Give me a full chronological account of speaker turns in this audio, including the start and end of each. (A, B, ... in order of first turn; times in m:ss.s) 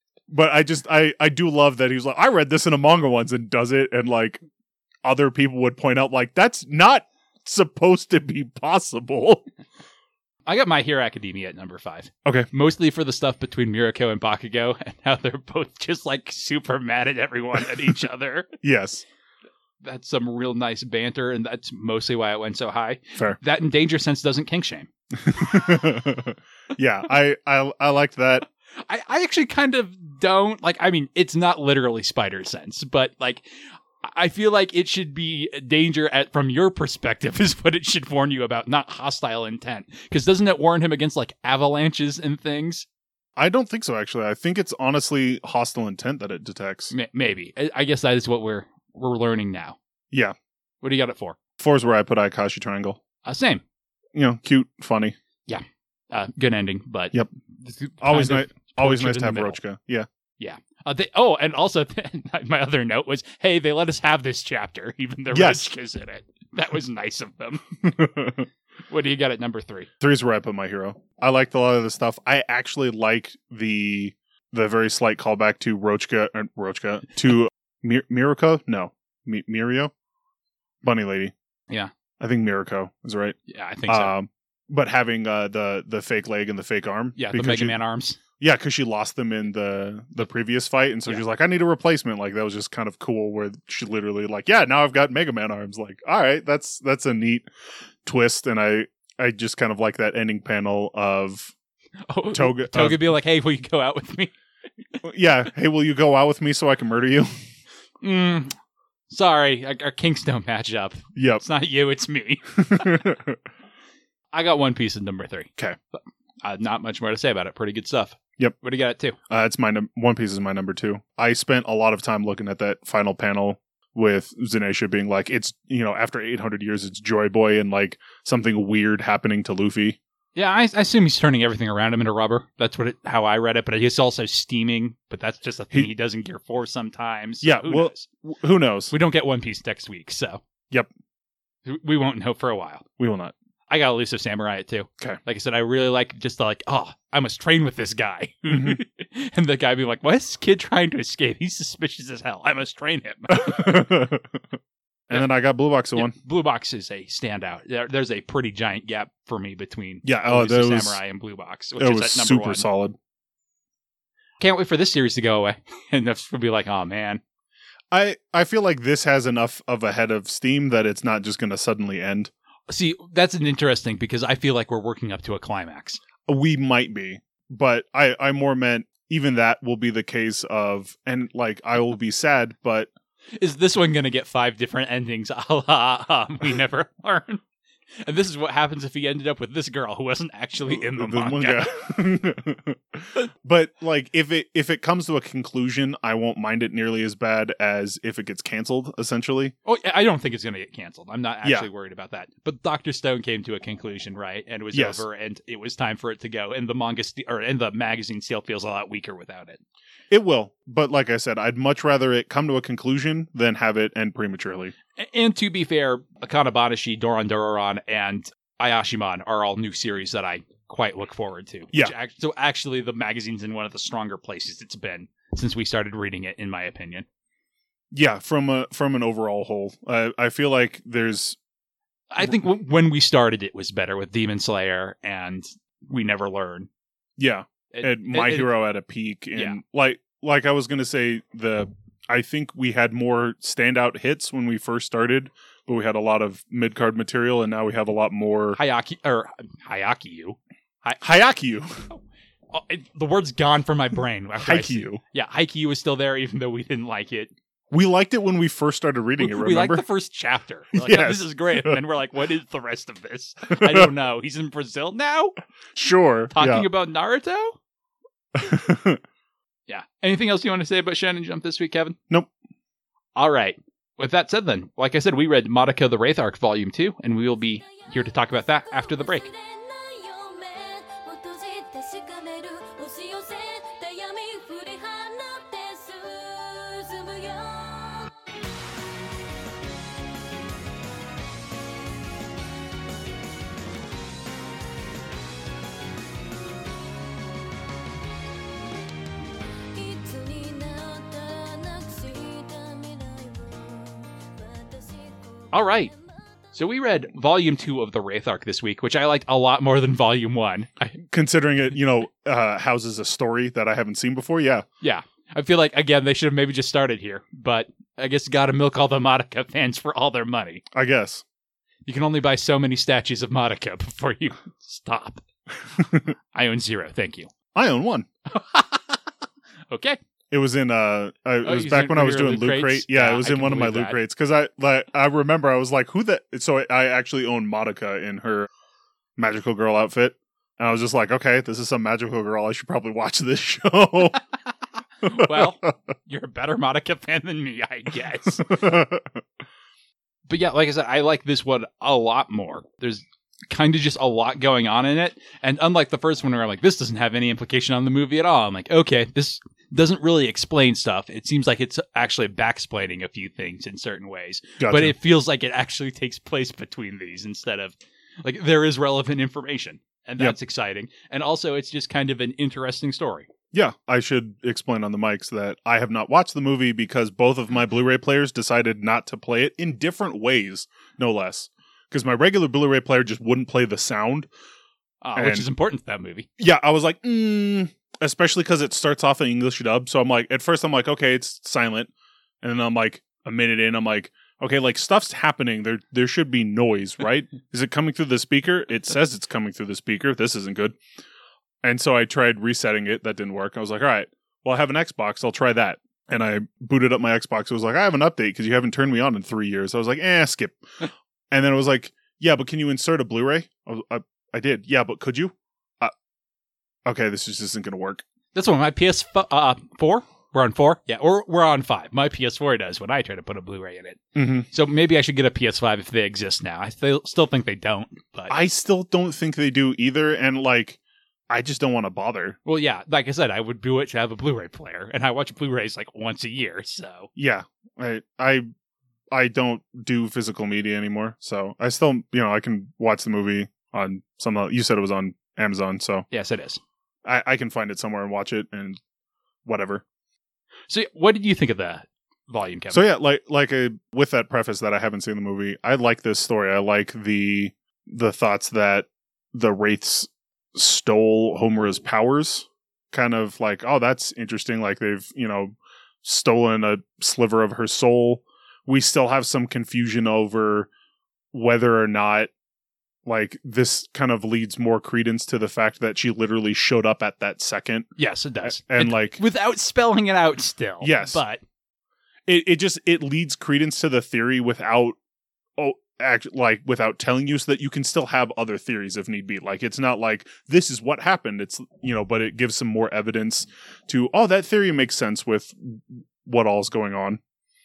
0:00.3-0:04.4 A
0:05.0-0:09.5 A
0:10.5-0:18.5 B
0:18.6-0:19.0 A
0:19.8-0:25.7 B
0:25.2-0:28.5 A
0:28.8-0:33.4 B
0:34.0-0:42.9 B
0:43.4-0:46.9 A
0:46.9-0:49.8 B
0:50.8-0:51.4 B
0:51.6-0:53.0 A
0:53.2-0:53.6 B
0:54.1-0:55.2 A
0:55.5-0:59.6 B
0:58.0-1:00.1 A
1:00.4-1:07.6 B
1:05.3-1:05.6 A
1:07.8-1:08.5 A
1:08.9-1:09.9 B
1:10.0-1:19.9 A
1:20.8-1:21.3 A
1:22.2-1:27.8 A
1:23.5-1:24.1 B
1:27.2-1:28.2 B
1:28.4-1:37.5 A
1:38.0-1:41.5 A
1:42.1-1:44.3 B
1:42.3-1:43.0 A
1:45.0-1:47.3 A
1:48.0-1:48.6 B
1:49.1-1:52.9 B
1:51.1-1:51.4 A
1:52.6-1:53.4 A
1:54.3-1:59.2 B
1:59.3-2:10.0 A
2:10.4-2:18.1 B
2:17.4-2:18.9 A
2:18.9-2:20.4 B
2:21.6-2:22.8 B
2:23.0-2:23.3 A
2:23.7-2:33.8 B
2:28.5-2:28.8 A
2:33.3-2:34.4 A
2:35.1-2:36.1 A
2:36.0-2:42.7 B
2:40.0-2:41.0 A
2:41.8-2:43.0 A
2:44.4-2:47.2 B
2:47.9-2:52.3 A
2:52.7-2:56.0 B
2:56.3-3:02.9 A
3:03.4-3:07.4 B
3:08.0-3:11.7 B
3:10.7-3:19.6 A
3:19.6-3:29.6 B
3:21.4-3:21.7 A
3:24.7-3:25.0 A
3:30.1-3:34.7 A
3:35.0-3:47.1 B
3:47.9-3:51.4 A
3:52.1-3:56.7 B
3:57.2-4:08.6 A
3:57.7-3:58.6 B
4:08.6-4:11.0 B
4:11.0-4:11.8 A
4:11.9-4:17.3 B
4:14.4-4:15.0 A
4:17.7-4:19.8 A
4:19.2-4:25.4 B
4:20.7-4:21.8 A
4:23.5-4:23.9 A
4:25.8-4:26.7 A
4:26.3-4:27.6 B
4:28.4-4:29.0 A
4:29.7-4:32.0 B
4:33.2-4:39.3 B
4:37.4-4:48.1 C
4:59.7-5:06.6 C
5:05.5-5:05.9 B
5:06.5-5:11.0 B
5:11.0-5:14.6 A
5:14.8-5:20.6 B
5:20.7-5:21.2 A
5:21.9-5:25.2 B
5:25.8-5:26.1 A
5:26.3-5:27.3 B
5:27.5-5:28.1 A
5:28.3-5:29.0 B
5:29.7-5:30.0 B
5:30.3-5:38.5 A
5:31.4-5:34.0 B
5:39.2-5:44.2 A
5:45.0-5:48.5 B
5:45.0-5:45.7 A
5:48.4-5:49.2 A
5:50.3-6:13.3 B
6:04.6-6:04.9 A
6:13.5-6:24.3 A
6:25.0-6:26.3 B
6:25.2-6:25.5 A
6:26.4-6:31.9 A
6:32.4-6:40.8 A
6:41.6-6:50.6 A
6:51.3-6:55.9 A
6:56.8-6:58.0 A
6:58.3-7:08.4 B
7:04.2-7:04.5 A
7:08.3-7:12.4 A
7:12.5-7:17.1 B
7:17.2-7:18.5 A
7:19.1-7:26.1 A
7:26.1-7:26.6 B
7:27.0-7:28.8 A
7:29.4-7:29.8 A
7:30.7-7:32.8 B
7:32.7-7:50.7 A
7:51.3-7:52.3 A
7:53.0-7:57.9 A
7:58.0-8:01.4 B
7:58.4-7:59.2 A
8:00.8-8:01.2 A
8:02.3-8:05.0 A
8:05.6-8:17.2 A